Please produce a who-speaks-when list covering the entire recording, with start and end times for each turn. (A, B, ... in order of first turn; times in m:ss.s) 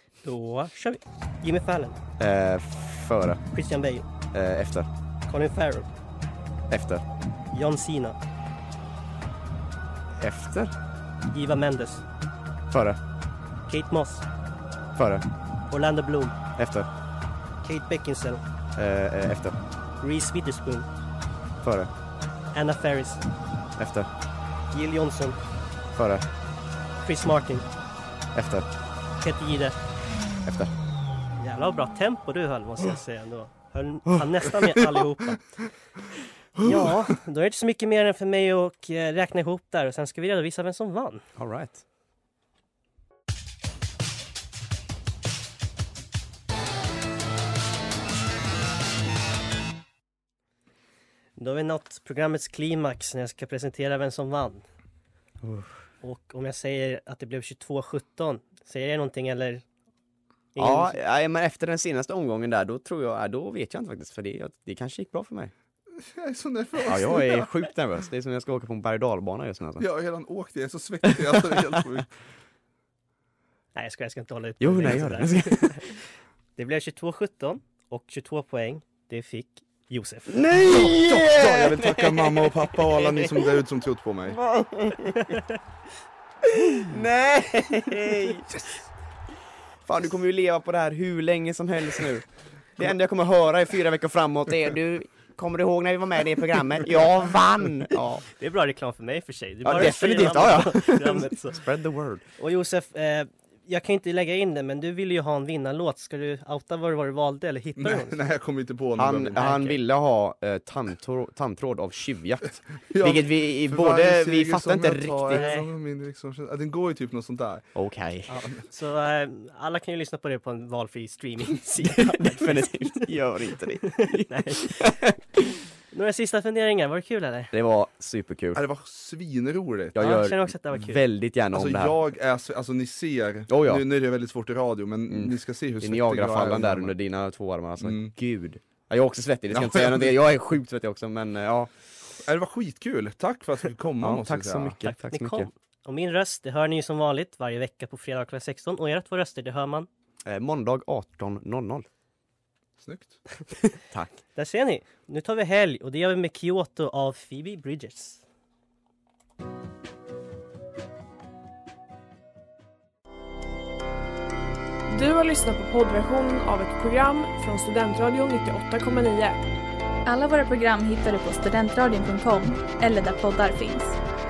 0:00.2-0:02.0 A
0:02.2-0:03.4 B
0:03.5-0:04.0 A
0:04.3-0:04.9 B
0:05.3-0:05.9 A
0:06.7-0:07.0 B
0:07.5-0:08.2 A
0:10.2-0:10.7 B
0:11.3-0:12.0 A
0:12.7-0:13.0 B
0:13.7-0:14.2 A
0:14.9-0:15.2 B
0:15.7-0:16.4 A
0:16.6-0:16.9 B
0:17.6-0:18.4 A
0:18.8-0:19.6 B
0:20.0-0:20.9 A
0:21.6-0:21.9 B
0:22.5-0:23.2 A
0:23.8-0:24.1 B
0:24.7-0:25.4 A
0:25.9-0:26.2 B
0:27.0-0:27.7 A
0:28.3-0:28.7 B
0:29.2-0:29.8 A
0:30.4-0:30.7 B
0:31.4-0:35.4 A
0:36.6-0:41.2 A
0:41.4-0:41.8 B
0:51.4-0:54.6 A
0:55.4-0:55.8 B
0:56.0-0:59.6 A
1:00.5-1:01.0 A
1:00.6-1:05.5 B
1:06.0-1:07.5 C
1:06.8-1:09.8 B
1:09.8-1:12.1 C
1:11.0-1:11.8 B
1:13.7-1:16.0 A
1:14.6-1:15.9 B
1:16.6-1:20.4 A
1:20.3-1:23.6 B
1:20.6-1:24.4 C
1:24.3-1:25.4 B
1:26.5-1:28.4 B
1:29.8-1:32.2 B
1:32.8-1:38.2 B
1:38.4-1:41.6 A
1:39.6-1:42.2 B
1:42.4-1:48.2 A
1:47.8-1:49.4 C
1:49.0-1:55.5 B
1:49.4-1:49.8 A
1:52.9-1:57.7 C
1:55.3-1:55.7 A
1:57.8-1:58.3 B
1:58.3-2:03.0 A
2:01.8-2:05.2 B
2:04.0-2:04.8 A
2:05.9-2:07.5 A
2:07.5-2:08.6 B
2:08.5-2:10.0 C
2:09.9-2:12.0 B
2:10.0-2:11.0 A
2:11.5-2:16.9 C
2:13.5-2:13.8 B
2:15.1-2:21.7 B
2:17.8-2:18.1 C
2:19.5-2:20.2 C
2:22.2-2:24.8 C
2:24.0-2:25.5 B
2:24.8-2:29.9 A
2:30.2-2:31.9 B
2:32.8-2:33.2 C
2:33.9-2:34.2 B
2:34.3-2:38.2 A
2:44.9-2:49.4 D
2:50.0-2:54.0 E